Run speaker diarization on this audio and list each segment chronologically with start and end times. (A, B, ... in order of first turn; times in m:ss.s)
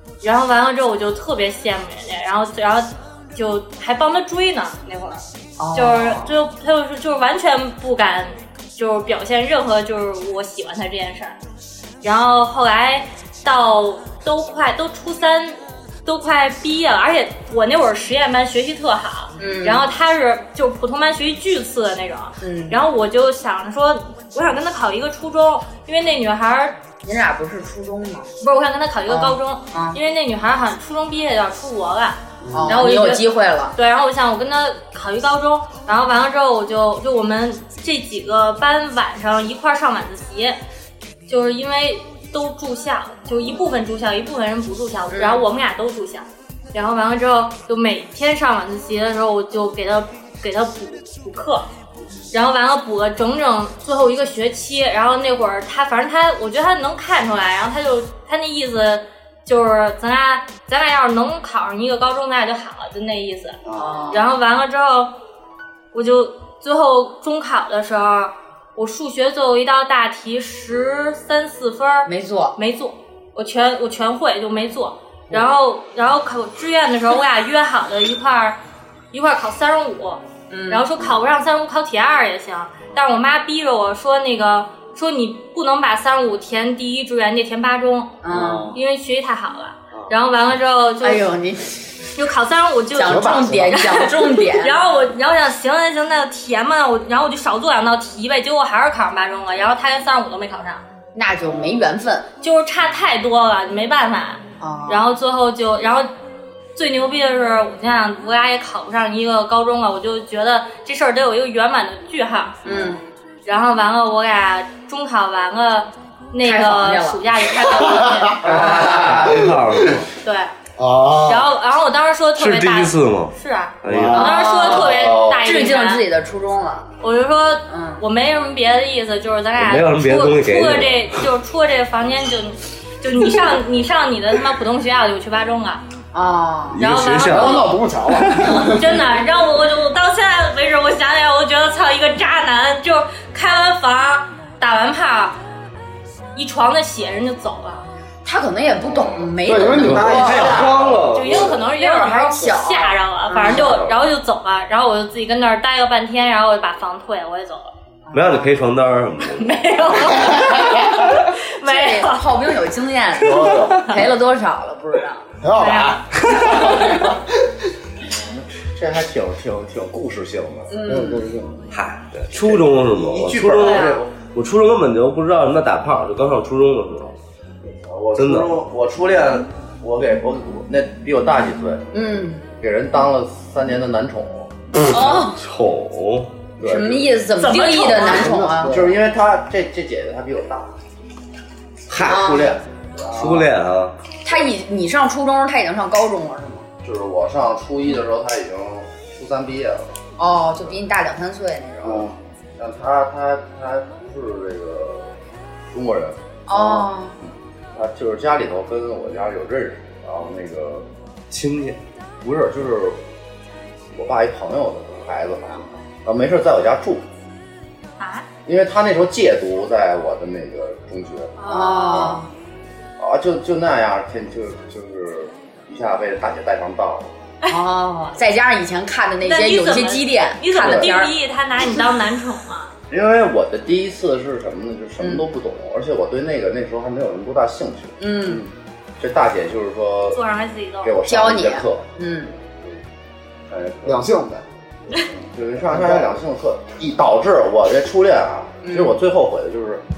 0:00.2-0:11.4 A
0:05.6-0:06.3 B
0:12.0-0:26.8 A
0:19.4-0:19.9 B
0:22.4-0:22.8 B
0:27.0-0:28.3 B
0:28.4-0:40.6 A
0:29.1-0:30.0 B
0:32.4-0:32.8 C
0:32.5-0:33.7 B
0:41.3-0:51.7 A
0:45.1-0:45.4 B
0:52.3-1:03.6 A
1:03.6-1:04.0 C
1:03.8-1:04.3 B
1:04.1-1:05.1 A
1:05.9-1:18.6 A
1:12.0-1:12.5 B
1:19.1-1:31.3 A
1:20.5-1:20.9 B
1:28.2-1:28.8 B
1:28.3-1:28.8 C
1:31.0-1:31.8 B
1:32.2-1:40.8 A
1:32.9-1:34.9 B
1:33.0-1:33.8 C
1:41.1-1:42.3 B
1:42.4-1:46.1 A
1:44.6-1:45.1 B
1:46.7-1:52.6 A
1:52.6-1:53.0 C
1:52.6-1:53.0 B
1:53.4-1:58.4 A
1:56.4-1:57.2 B
1:57.8-2:00.0 C
1:58.4-1:59.5 D
1:58.5-2:00.1 E
2:00.2-2:00.5 A
2:00.8-2:01.5 C
2:01.2-2:06.0 A
2:02.4-2:04.3 E
2:03.8-2:04.6 C
2:04.1-2:06.9 B
2:04.6-2:05.6 D
2:07.0-2:15.8 A
2:07.7-2:08.0 B
2:09.6-2:11.2 E
2:16.1-2:16.8 B
2:16.7-2:18.7 E
2:16.8-2:17.7 A
2:17.2-2:19.2 C
2:18.6-2:25.4 A
2:26.3-2:27.9 A
2:28.2-2:30.7 B
2:28.8-2:31.2 D
2:29.4-2:30.7 C
2:29.8-2:31.5 E
2:31.1-2:37.7 A
2:31.3-2:33.9 B
2:38.1-2:38.5 B
2:38.1-2:39.7 E
2:39.2-2:42.3 A
2:41.6-2:45.3 B
2:43.2-2:44.1 C
2:45.4-2:47.2 C
2:45.5-2:46.7 A
2:48.0-2:50.8 D
2:50.7-2:51.3 B
2:50.8-2:51.6 C
2:51.7-2:57.2 E
2:52.3-2:54.1 D
2:53.6-2:54.0 A
2:57.8-3:01.9 D
2:58.2-2:58.5 E
3:01.9-3:02.4 B
3:02.6-3:04.5 D
3:04.9-3:05.4 B
3:04.9-3:06.3 E
3:06.6-3:07.2 D
3:06.6-3:08.7 B
3:07.4-3:08.4 A
3:08.0-3:08.9 C
3:08.3-3:10.7 D
3:11.9-3:13.1 D
3:11.9-3:12.3 E
3:12.0-3:12.6 B
3:13.1-3:13.4 C
3:13.1-3:13.9 E
3:14.2-3:16.6 B
3:16.8-3:19.9 D
3:20.2-3:22.1 B
3:22.6-3:25.1 D
3:25.7-3:30.8 D
3:26.5-3:27.2 B
3:31.3-3:31.8 E
3:32.2-3:33.0 D
3:33.9-3:37.0 D
3:38.0-3:38.2 A
3:38.4-3:42.2 D
3:41.4-3:42.2 A
3:41.4-3:42.3 B
3:43.0-3:47.1 D
3:47.5-3:51.1 B
3:49.2-3:52.7 A
3:50.6-3:50.9 D
3:52.9-3:58.4 D
3:58.0-3:58.4 B
3:59.0-4:00.2 D
4:00.1-4:00.9 A
4:00.8-4:01.8 D
4:01.0-4:02.3 B
4:03.5-4:04.0 D
4:03.8-4:04.4 C
4:05.1-4:09.8 D
4:05.7-4:06.2 C
4:08.6-4:09.0 B